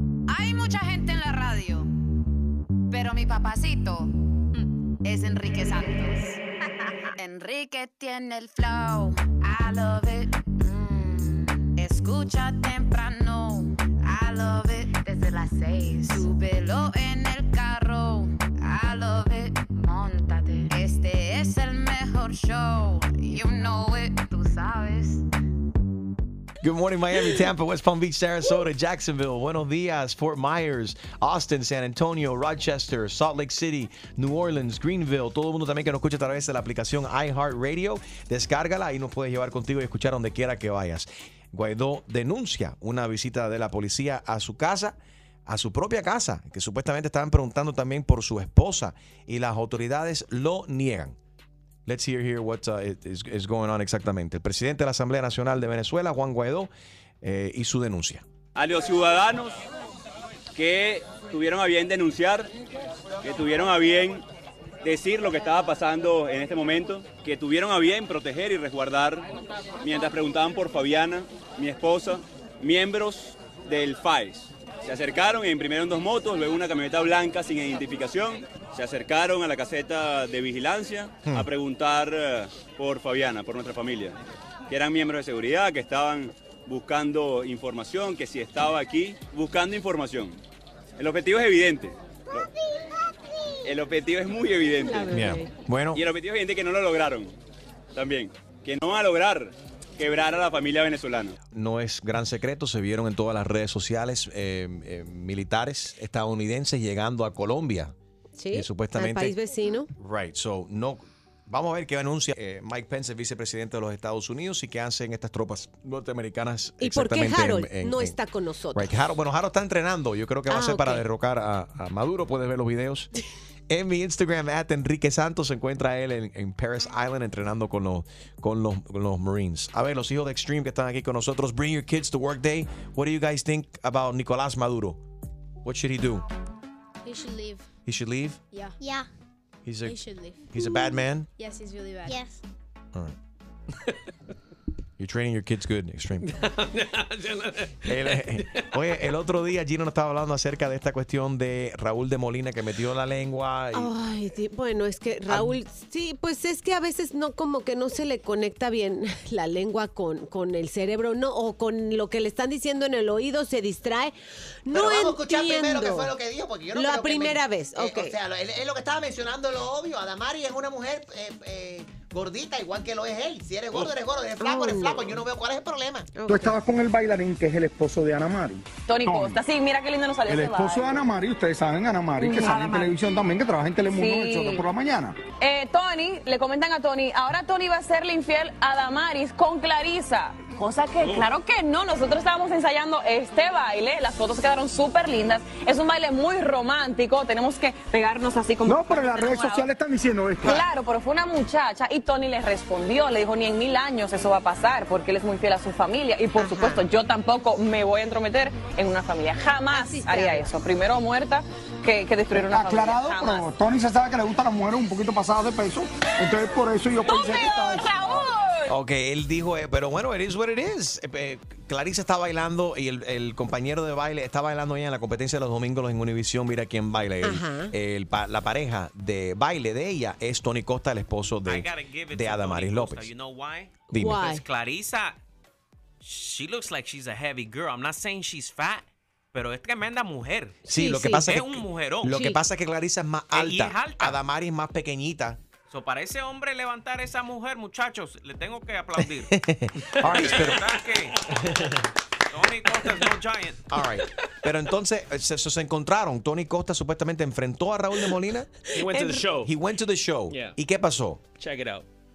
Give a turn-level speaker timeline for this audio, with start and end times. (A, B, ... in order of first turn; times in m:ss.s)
0:00.3-0:01.9 A
0:02.9-0:04.1 A
0:05.0-0:06.4 A
0:07.2-0:25.2 A
0:26.6-0:51.2 B
0:51.8-0:56.7 B
0:57.2-0:58.2 B
0:58.6-0:59.5 C
1:00.6-1:02.5 C
1:03.2-1:04.2 C
1:04.8-1:09.2 C
1:09.8-1:24.2 C
1:24.7-1:30.4 C
1:31.0-1:32.5 C
1:33.6-1:35.2 C
1:34.8-1:35.5 D
1:35.1-1:36.0 B
1:35.9-1:37.3 C
1:37.9-1:41.4 C
1:41.5-1:47.9 B
1:48.4-1:49.9 D
1:48.5-1:49.3 B
1:50.0-1:58.2 B
1:56.8-1:58.9 D
1:58.7-2:03.1 B
2:00.5-2:01.0 D
2:03.7-2:15.0 B
2:15.6-2:16.2 B
2:17.0-2:17.6 E
2:17.8-2:18.4 B
2:18.5-2:19.0 E
2:19.6-2:20.0 B
2:19.9-2:20.8 E
2:20.5-2:21.3 B
2:21.4-2:22.4 E
2:25.0-2:26.3 B
2:26.2-2:28.4 F
2:27.8-2:33.9 B
2:33.7-2:46.1 D
2:35.3-2:35.6 B
2:44.7-2:56.1 G
2:46.7-2:48.2 D
2:54.4-2:55.2 D
2:56.1-2:56.6 D
2:56.3-2:59.4 H
2:58.9-3:01.0 I
3:00.2-3:05.2 H
3:02.2-3:02.9 I
3:03.9-3:04.6 I
3:05.4-3:19.6 I
3:11.0-3:11.3 F
3:18.6-3:20.6 H
3:20.4-3:33.4 I
3:26.4-3:26.9 D
3:29.7-3:30.5 D
3:32.3-3:38.3 H
3:37.1-3:38.7 I
3:38.7-3:53.1 B
3:47.2-3:47.7 D
3:51.4-3:55.2 J
3:53.9-3:54.2 B
3:53.9-3:54.4 D
3:56.0-4:00.6 J
4:00.6-4:01.3 D
4:00.6-4:05.4 B
4:01.2-4:02.2 J
4:03.3-4:04.2 J
4:05.7-4:09.3 J
4:10.0-4:10.7 B
4:10.0-4:11.2 J
4:12.3-4:13.6 J
4:12.7-4:13.1 F
4:13.7-4:18.5 B
4:18.7-4:19.5 F
4:18.9-4:19.2 D
4:19.4-4:21.2 B
4:20.3-4:20.5 F
4:21.4-4:21.8 F